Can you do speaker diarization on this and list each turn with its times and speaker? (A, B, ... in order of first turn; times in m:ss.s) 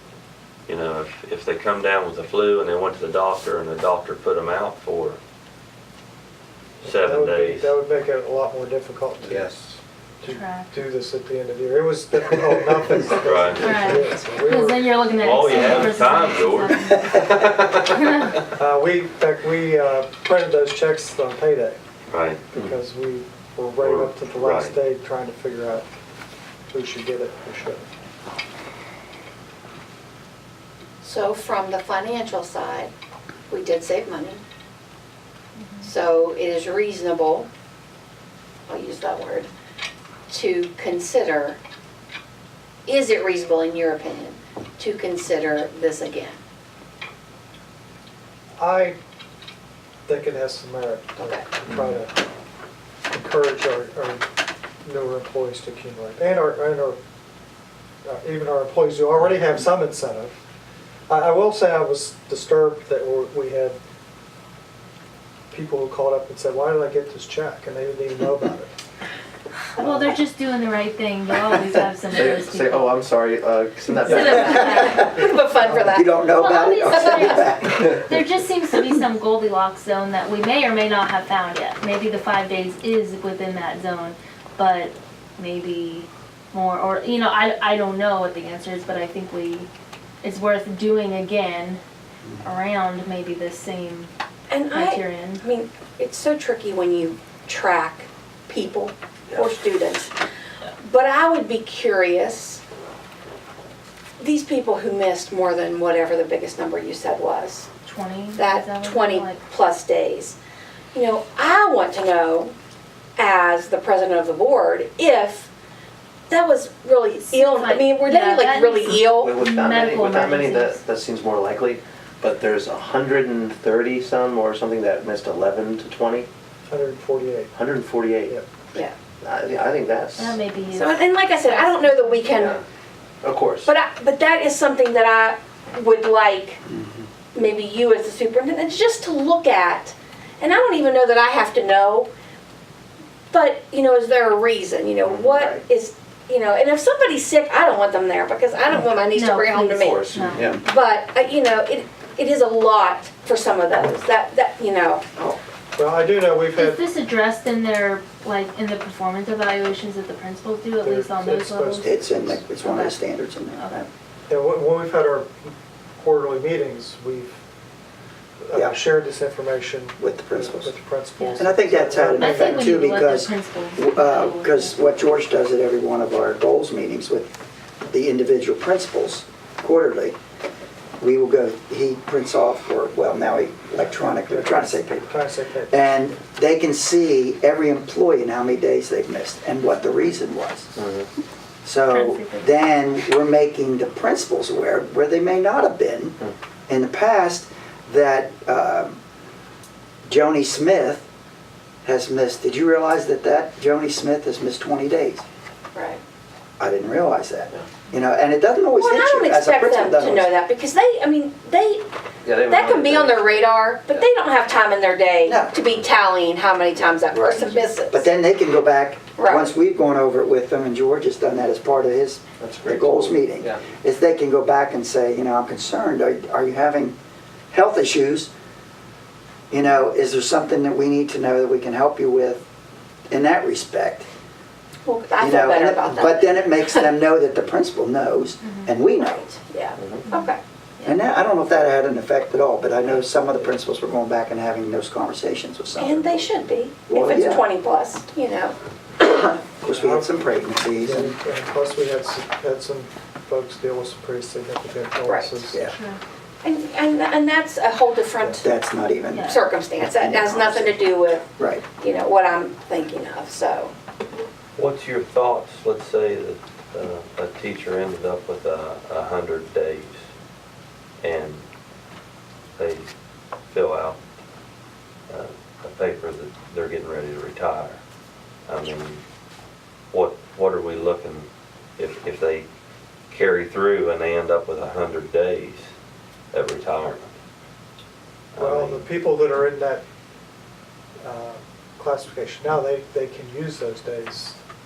0:00.7-0:05.2 A
0:06.8-0:09.5 B
0:06.8-0:07.7 A
0:09.2-0:09.8 C
0:10.2-0:16.0 B
0:10.2-0:10.7 D
0:12.3-0:13.0 C
0:13.2-0:13.6 A
0:13.6-0:17.0 D
0:15.2-0:18.3 A
0:18.5-0:21.8 B
0:22.1-0:22.4 A
0:22.6-0:25.9 B
0:23.8-0:24.8 A
0:26.7-0:27.9 B
0:31.0-0:32.9 E
0:33.5-0:34.4 E
0:35.6-0:35.9 D
0:35.8-0:37.5 E
0:38.7-0:39.5 E
0:40.3-0:41.6 E
0:42.9-0:46.4 E
0:48.6-0:49.0 B
0:50.0-0:52.2 B
0:51.2-0:51.5 E
0:53.1-0:54.3 B
0:54.8-0:57.0 B
0:58.0-1:00.4 B
1:01.1-1:03.8 B
1:05.5-1:08.7 B
1:09.8-1:13.0 D
1:09.8-1:10.2 C
1:12.1-1:14.9 C
1:13.9-1:15.1 D
1:14.7-1:16.4 E
1:15.6-1:16.0 B
1:15.9-1:18.0 F
1:16.2-1:29.7 D
1:16.9-1:17.5 E
1:17.7-1:18.0 C
1:30.2-1:31.8 D
1:32.4-1:34.1 D
1:34.5-1:40.1 E
1:34.7-1:35.4 D
1:40.8-1:42.6 E
1:44.2-1:47.7 E
1:47.8-1:49.4 D
1:48.4-1:50.4 E
1:50.9-1:52.5 E
1:53.2-1:55.5 E
1:56.3-1:59.4 E
1:57.2-2:00.8 D
1:59.2-2:06.3 C
2:06.6-2:07.5 B
2:07.5-2:08.4 C
2:09.2-2:10.4 C
2:10.2-2:12.4 D
2:10.7-2:12.6 E
2:12.3-2:12.6 C
2:13.2-2:13.7 C
2:13.6-2:16.6 E
2:16.6-2:17.1 F
2:17.3-2:22.1 E
2:23.3-2:35.1 E
2:25.0-2:25.5 C
2:29.1-2:30.5 D
2:29.7-2:30.6 C
2:35.8-2:36.8 B
2:36.6-2:41.8 D
2:40.8-2:42.5 B
2:41.8-2:43.9 F
2:42.6-2:43.0 D
2:43.5-2:43.8 D
2:44.3-2:47.4 B
2:48.4-2:52.6 B
2:48.5-2:48.8 F
2:50.0-2:50.7 F
2:51.2-2:51.4 D
2:51.4-2:57.3 F
2:52.2-2:54.8 D
2:57.8-3:00.2 F
3:01.0-3:05.1 F
3:04.2-3:05.8 B
3:05.7-3:10.8 F
3:10.8-3:11.1 C
3:11.6-3:19.0 F
3:11.9-3:12.5 D
3:20.0-3:21.0 F
3:21.8-3:25.2 F
3:25.7-3:26.0 E
3:26.6-3:30.3 F
3:28.8-3:31.9 E
3:32.2-3:34.1 C
3:32.4-3:38.0 E
3:35.2-3:35.6 F
3:37.1-3:47.0 F
3:37.4-3:37.7 D
3:39.2-3:39.5 E
3:42.4-3:43.6 C
3:47.5-3:48.3 F
3:49.5-3:52.4 F
3:53.1-3:54.0 F
3:54.8-3:56.9 E
3:55.2-3:59.2 F
3:58.4-3:58.7 D
3:58.9-4:00.4 E
3:59.8-4:00.0 C
4:00.0-4:01.0 D
4:00.8-4:06.3 F
4:05.8-4:08.5 E
4:06.9-4:07.5 F
4:09.0-4:11.1 F
4:09.6-4:10.2 B
4:10.8-4:15.6 B
4:15.0-4:15.5 E
4:15.7-4:16.0 D
4:16.4-4:18.5 E
4:18.2-4:18.4 B
4:18.4-4:21.6 F
4:19.1-4:19.5 D
4:19.3-4:23.7 E
4:24.6-4:30.0 A
4:31.0-4:31.4 A
4:32.6-4:32.9 A
4:33.5-4:34.0 A
4:35.1-4:37.8 A
4:38.5-4:39.0 A
4:39.9-4:41.3 A
4:41.8-4:42.4 A
4:43.1-4:45.7 A
4:46.3-4:47.1 A
4:48.3-4:48.9 A
4:48.4-4:49.8 B
4:51.0-4:54.4 B